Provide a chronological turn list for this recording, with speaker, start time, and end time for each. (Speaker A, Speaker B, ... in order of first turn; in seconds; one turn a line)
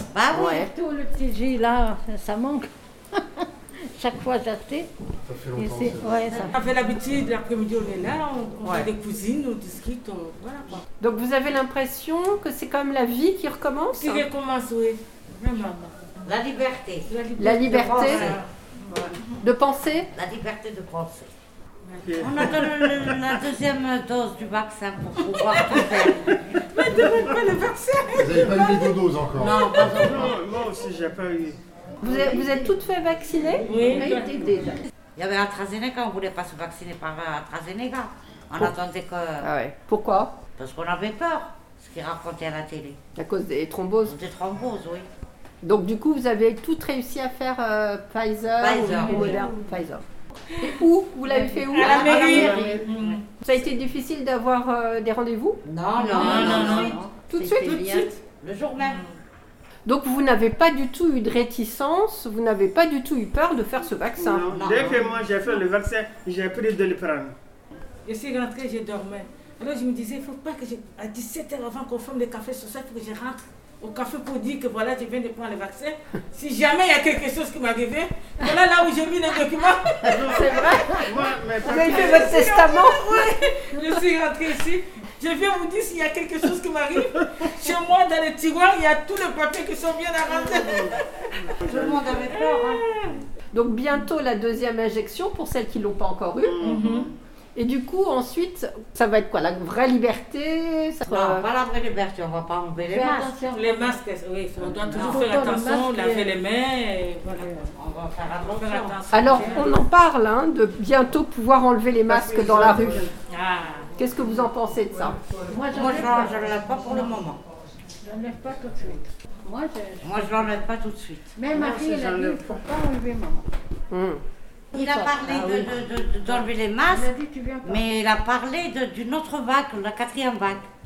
Speaker A: 0.1-0.6
Speaker B: 0.3-4.9
Speaker C: 5.2-6.4
Speaker B: 5.5-6.5
Speaker D: 6.5-10.8
Speaker E: 11.0-14.2
Speaker D: 13.9-15.9
Speaker A: 16.2-17.1
Speaker D: 17.1-19.3
Speaker E: 17.4-18.3
Speaker A: 17.9-18.4
Speaker E: 19.4-20.1
Speaker A: 20.1-21.3
Speaker F: 22.0-23.1
Speaker A: 22.2-26.2
Speaker D: 26.7-29.0
Speaker C: 28.1-30.3
Speaker A: 29.3-30.4
Speaker F: 30.0-31.6
Speaker E: 32.0-33.7
Speaker D: 33.7-34.6
Speaker B: 33.9-34.7
Speaker A: 35.1-39.5
Speaker E: 39.4-40.4
Speaker A: 40.6-43.0
Speaker E: 43.2-44.1
Speaker A: 44.0-45.1
Speaker E: 45.6-50.0
Speaker A: 48.6-49.4
Speaker E: 50.6-52.8
Speaker B: 51.3-52.5
Speaker D: 51.7-53.2
Speaker F: 51.9-52.8
Speaker A: 51.9-53.2
Speaker E: 53.4-55.6
Speaker A: 55.6-57.0
Speaker D: 56.0-56.9
Speaker B: 56.1-58.1
Speaker E: 56.2-57.9
Speaker A: 57.7-59.0
Speaker D: 58.8-59.1
Speaker E: 59.8-64.5
Speaker F: 64.2-67.3
Speaker A: 64.5-65.0
Speaker D: 68.0-80.7
Speaker F: 80.0-82.3
Speaker E: 80.3-83.4
Speaker D: 81.6-91.3
Speaker F: 90.5-90.9
Speaker F: 91.6-92.2
Speaker A: 91.7-92.8
Speaker D: 92.3-93.2
Speaker E: 93.5-96.6
Speaker F: 96.4-97.1
Speaker D: 96.6-97.1
Speaker E: 97.5-101.5
Speaker A: 101.0-103.3
Speaker B: 102.8-104.0
Speaker D: 103.5-107.5
Speaker B: 104.7-106.3
Speaker B: 107.3-107.7
Speaker A: 107.8-109.0
Speaker D: 108.4-109.7
Speaker E: 109.1-113.1
Speaker B: 109.3-109.7
Speaker D: 113.3-113.9
Speaker E: 114.0-115.2
Speaker B: 115.4-117.1
Speaker A: 115.7-117.4
Speaker B: 118.0-120.5
Speaker A: 120.0-121.3
Speaker B: 121.3-123.5
Speaker F: 121.6-122.4
Speaker E: 123.9-124.2
Speaker A: 124.7-127.1
Speaker B: 124.7-127.8
Speaker A: 127.6-130.6